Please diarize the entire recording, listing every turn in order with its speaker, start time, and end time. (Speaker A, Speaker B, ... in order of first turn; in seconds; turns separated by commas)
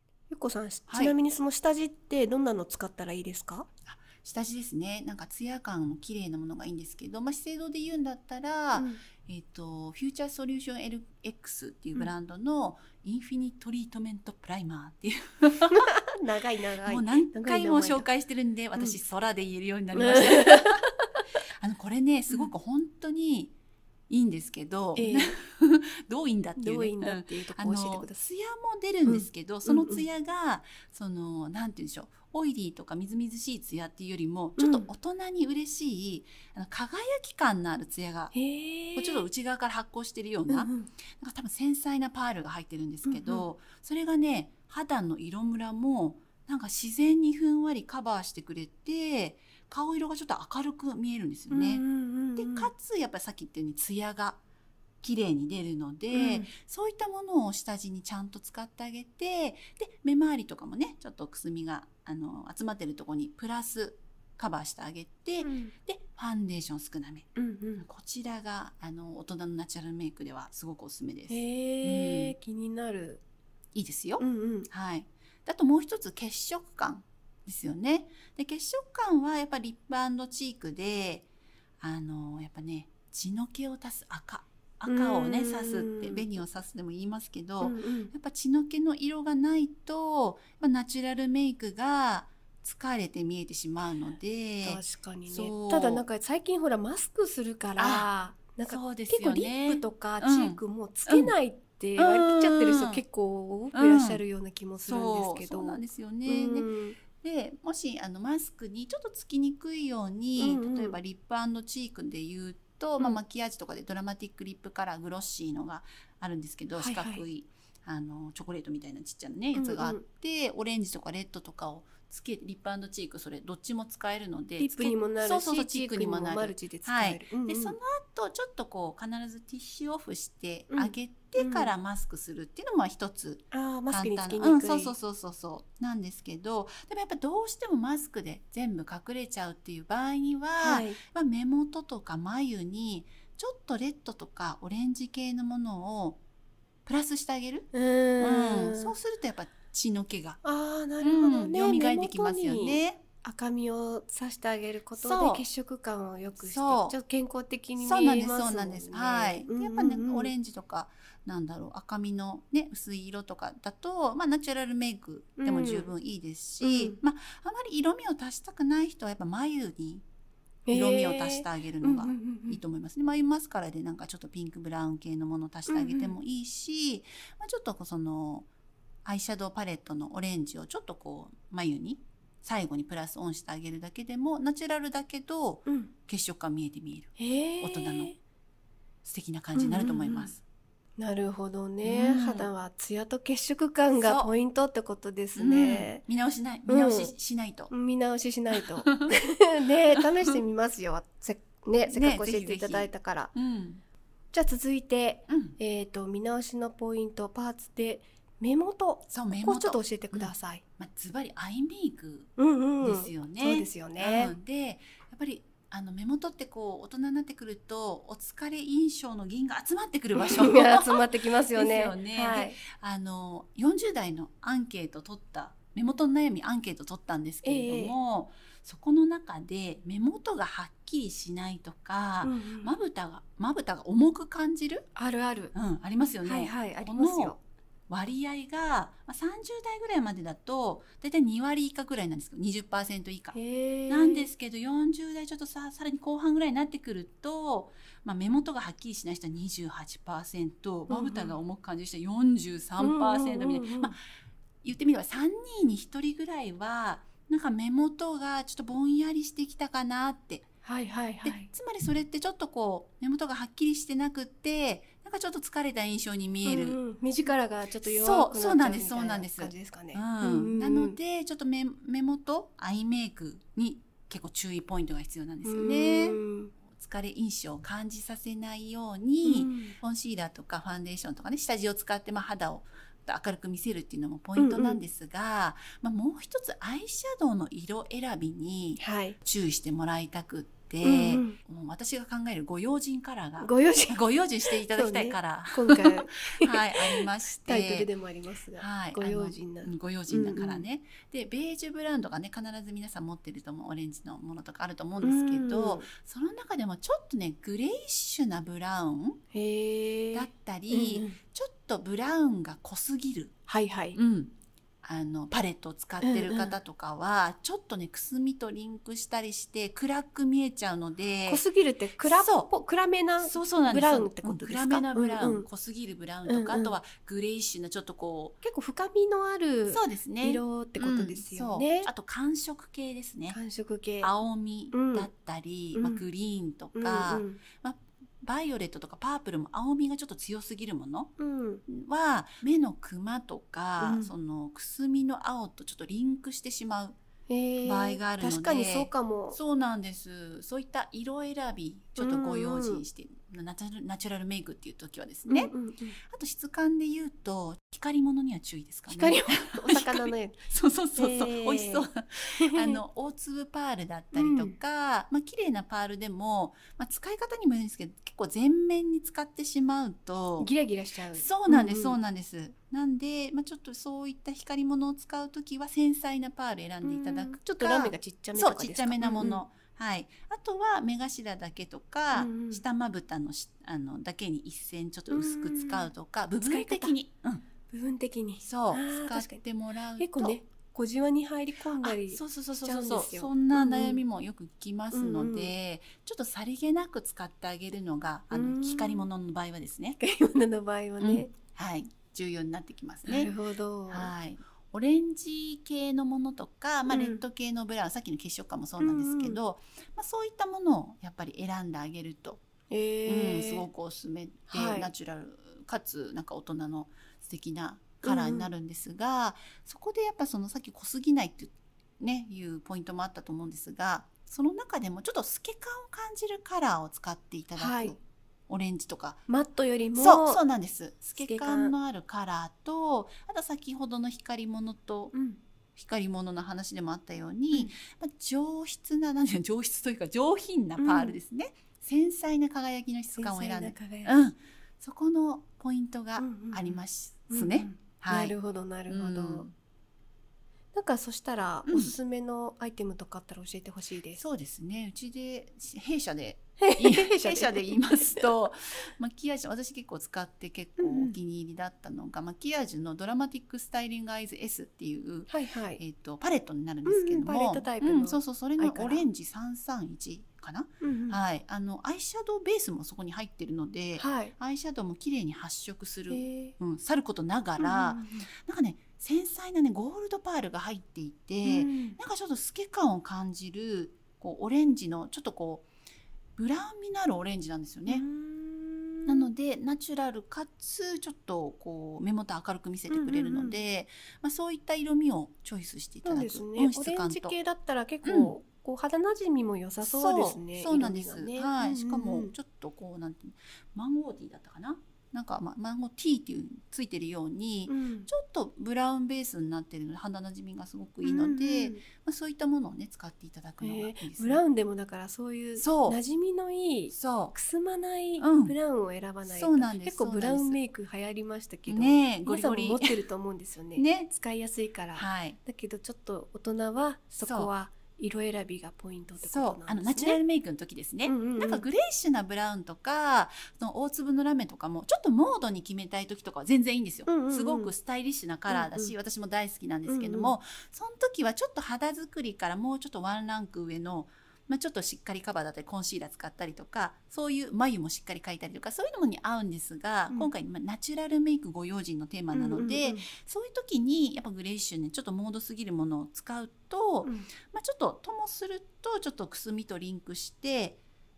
Speaker A: 0.3-3.7, Speaker B: 0.9-1.1, Speaker B: 3.9-15.9, Speaker A: 8.8-9.0, Speaker A: 15.7-18.1, Speaker B: 16.9-20.8, Speaker A: 19.9-20.9, Speaker B: 21.6-23.5, Speaker B: 24.1-38.3, Speaker A: 25.0-25.4, Speaker A: 26.6-28.2, Speaker A: 29.1-30.0, Speaker A: 34.6-34.9, Speaker A: 38.3-39.3, Speaker B: 39.0-51.9, Speaker A: 40.5-40.9, Speaker A: 43.1-43.5, Speaker A: 51.5-52.7, Speaker B: 52.4-54.4, Speaker B: 55.0-72.3, Speaker A: 56.1-56.5, Speaker A: 65.4-65.7, Speaker A: 67.4-67.9, Speaker A: 71.3-73.2, Speaker B: 73.7-81.3, Speaker A: 74.2-74.7, Speaker B: 81.8-96.0, Speaker A: 84.9-86.3, Speaker A: 87.6-88.1, Speaker A: 94.6-107.0, Speaker B: 97.8-98.1, Speaker B: 98.7-101.3, Speaker B: 102.0-103.0, Speaker B: 103.7-104.2, Speaker B: 104.8-146.2, Speaker A: 110.4-111.0, Speaker A: 116.7-117.2, Speaker A: 119.5-120.0, Speaker A: 124.6-127.8, Speaker A: 130.7-131.7, Speaker A: 133.5-134.9, Speaker A: 140.6-141.0, Speaker B: 146.8-150.4, Speaker A: 147.7-148.9, Speaker A: 150.4-160.3, Speaker B: 151.0-153.0, Speaker B: 154.9-155.4, Speaker B: 156.4-156.9, Speaker B: 157.8-170.1, Speaker A: 165.4-165.9, Speaker A: 166.6-167.0, Speaker A: 170.7-172.6, Speaker B: 170.7-178.5, Speaker A: 175.7-176.2, Speaker B: 179.1-188.2, Speaker A: 185.7-185.9, Speaker A: 187.2-188.2, Speaker B: 189.0-190.4, Speaker A: 189.6-190.3, Speaker A: 191.0-196.0, Speaker B: 191.8-192.5, Speaker B: 193.9-194.3, Speaker B: 195.3-197.7, Speaker A: 196.7-197.1, Speaker A: 197.7-203.3, Speaker B: 198.6-199.2, Speaker B: 200.0-200.3, Speaker B: 201.9-203.8, Speaker A: 204.3-210.6, Speaker B: 205.3-205.6, Speaker B: 209.1-234.9, Speaker A: 212.4-214.3, Speaker A: 220.2-222.6, Speaker A: 227.4-227.9, Speaker A: 232.2-232.7, Speaker A: 235.0-235.5, Speaker B: 235.5-237.3, Speaker A: 236.2-237.4, Speaker B: 237.9-243.4, Speaker A: 243.3-244.3, Speaker B: 243.9-254.0, Speaker A: 250.9-251.4, Speaker A: 252.8-254.0, Speaker B: 254.6-260.4, Speaker A: 260.6-261.5, Speaker B: 261.2-266.8, Speaker A: 266.4-271.0, Speaker B: 267.8-297.9, Speaker A: 275.4-276.5, Speaker A: 279.2-279.8, Speaker A: 284.4-284.8, Speaker A: 288.8-289.2, Speaker A: 290.8-291.4, Speaker A: 293.4-294.0, Speaker A: 294.5-300.6, Speaker B: 298.6-309.2, Speaker A: 305.0-305.9, Speaker A: 309.3-311.2, Speaker B: 310.1-313.3, Speaker A: 313.5-314.0, Speaker B: 313.9-321.4, Speaker A: 316.0-316.6, Speaker A: 321.3-325.5, Speaker B: 322.0-322.5, Speaker B: 323.2-328.4, Speaker A: 326.3-326.7, Speaker A: 328.4-331.9, Speaker B: 329.7-333.4, Speaker A: 333.3-334.1, Speaker B: 334.0-341.1, Speaker A: 334.7-335.1, Speaker A: 335.8-336.0, Speaker A: 336.8-337.4, Speaker A: 341.2-341.6, Speaker B: 341.7-347.0, Speaker A: 343.8-344.1, Speaker A: 347.3-349.4, Speaker B: 347.6-355.5, Speaker A: 352.0-352.8, Speaker A: 355.3-356.0, Speaker B: 356.0-370.5, Speaker A: 358.9-360.4, Speaker A: 360.9-361.9, Speaker A: 362.4-362.8, Speaker A: 364.1-364.6, Speaker A: 370.4-372.0, Speaker B: 371.1-387.5, Speaker A: 376.8-379.4, Speaker A: 382.1-382.6, Speaker A: 385.1-386.9, Speaker A: 387.7-389.4, Speaker B: 388.4-390.4, Speaker A: 390.0-394.0, Speaker B: 391.8-400.0, Speaker A: 394.9-395.5, Speaker A: 398.3-399.1, Speaker A: 400.0-401.3, Speaker B: 401.0-403.3, Speaker A: 403.1-404.1, Speaker B: 403.9-412.4, Speaker A: 406.9-407.2, Speaker A: 408.8-409.4, Speaker A: 412.7-413.7, Speaker B: 413.1-429.2, Speaker A: 414.5-414.9, Speaker A: 418.0-418.5, Speaker A: 427.6-428.0, Speaker A: 429.3-430.4, Speaker B: 429.9-435.1, Speaker A: 431.2-431.7, Speaker A: 435.1-435.4, Speaker B: 435.8-448.4, Speaker A: 440.8-441.2, Speaker A: 443.1-444.2, Speaker A: 446.2-449.5, Speaker B: 448.9-449.5, Speaker A: 450.7-454.2, Speaker B: 451.7-451.9, Speaker B: 454.1-485.7, Speaker A: 456.6-458.3, Speaker A: 460.8-461.2, Speaker A: 465.3-465.8, Speaker A: 466.9-469.1, Speaker A: 470.8-471.2, Speaker A: 474.0-474.3, Speaker A: 476.1-476.6, Speaker A: 477.6-478.3, Speaker A: 481.4-482.0, Speaker B: 486.4-488.1, Speaker A: 487.9-489.3, Speaker B: 489.1-497.4, Speaker A: 492.9-493.6, Speaker A: 496.1-502.3, Speaker B: 498.0-498.3, Speaker B: 499.8-514.4, Speaker A: 507.7-508.1, Speaker A: 511.0-511.8, Speaker A: 513.6-530.2, Speaker B: 515.6-516.0, Speaker B: 516.9-517.4, Speaker B: 518.2-518.5, Speaker B: 519.2-520.6, Speaker B: 521.7-523.0, Speaker B: 523.8-524.1, Speaker B: 525.0-525.4, Speaker B: 527.2-527.5, Speaker B: 529.2-560.8, Speaker A: 531.1-531.6, Speaker A: 537.1-537.7, Speaker A: 538.5-539.0, Speaker A: 539.9-540.4, Speaker A: 552.3-553.1